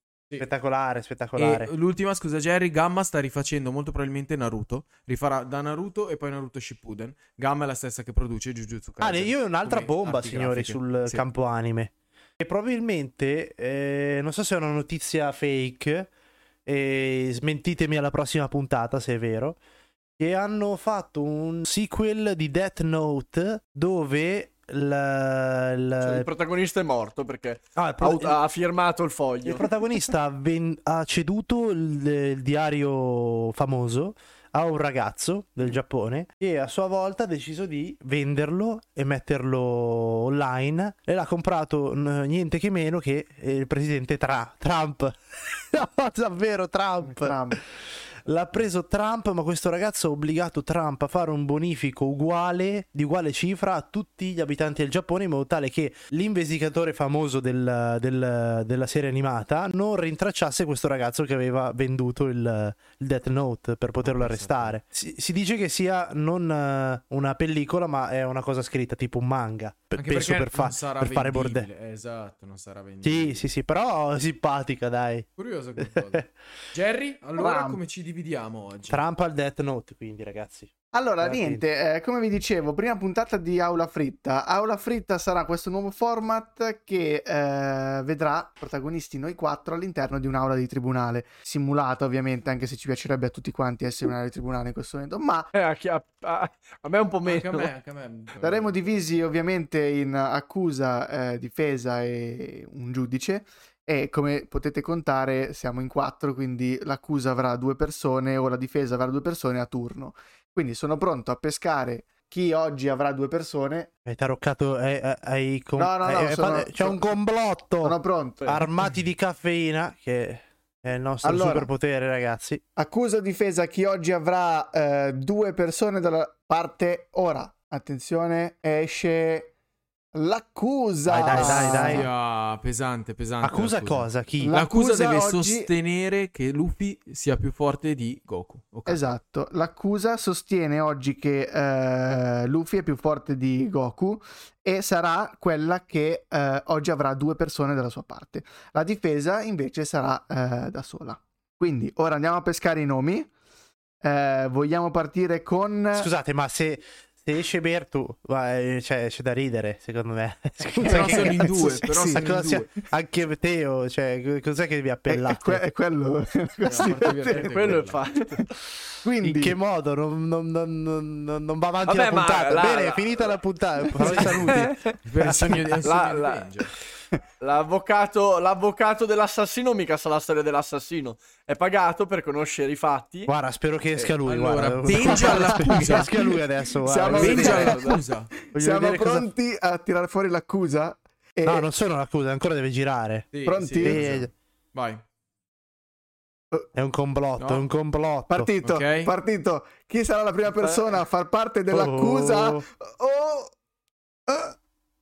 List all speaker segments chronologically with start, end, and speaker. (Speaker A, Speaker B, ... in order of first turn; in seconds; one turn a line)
Speaker A: 0.4-1.7
Speaker B: 1.4-11.3
Speaker A: 9.0-16.1
Speaker A: 16.7-19.6
Speaker A: 20.2-26.3
Speaker C: 26.0-29.6
Speaker A: 27.8-28.4
Speaker A: 29.4-71.7
Speaker D: 47.0-47.6
Speaker B: 64.0-64.8
Speaker B: 70.0-73.5
Speaker A: 73.0-75.3
Speaker B: 75.4-79.0
Speaker A: 75.8-76.3
Speaker D: 77.4-77.8
Speaker A: 78.9-81.6
Speaker D: 80.9-95.5
Speaker C: 95.5-97.7
Speaker B: 97.2-99.1
Speaker D: 98.4-113.9
Speaker A: 114.1-122.6
Speaker D: 115.8-117.0
Speaker D: 117.8-118.6
Speaker D: 121.2-121.7
Speaker D: 122.8-129.5
Speaker D: 130.1-132.1
Speaker A: 131.1-132.1
Speaker B: 131.1-139.1
Speaker A: 133.4-134.6
Speaker D: 134.4-135.7
Speaker D: 138.9-153.3
Speaker D: 154.0-156.1
Speaker A: 155.9-165.6
Speaker D: 160.8-162.4
Speaker B: 160.8-162.7
Speaker D: 165.1-167.8
Speaker B: 166.7-168.0
Speaker C: 167.3-168.5
Speaker D: 169.0-169.6
Speaker A: 169.2-174.8
Speaker C: 171.8-173.4
Speaker C: 174.0-175.0
Speaker B: 175.1-176.7
Speaker C: 175.8-176.5
Speaker C: 177.4-183.3
Speaker A: 183.3-187.7
Speaker B: 184.2-186.2
Speaker D: 184.9-191.7
Speaker C: 187.0-188.0
Speaker B: 187.1-188.3
Speaker A: 188.5-189.3
Speaker A: 191.4-194.3
Speaker B: 193.3-195.0
Speaker D: 193.4-194.1
Speaker A: 196.8-198.5
Speaker D: 198.3-203.6
Speaker B: 198.6-199.1
Speaker A: 201.7-202.7
Speaker D: 204.3-204.6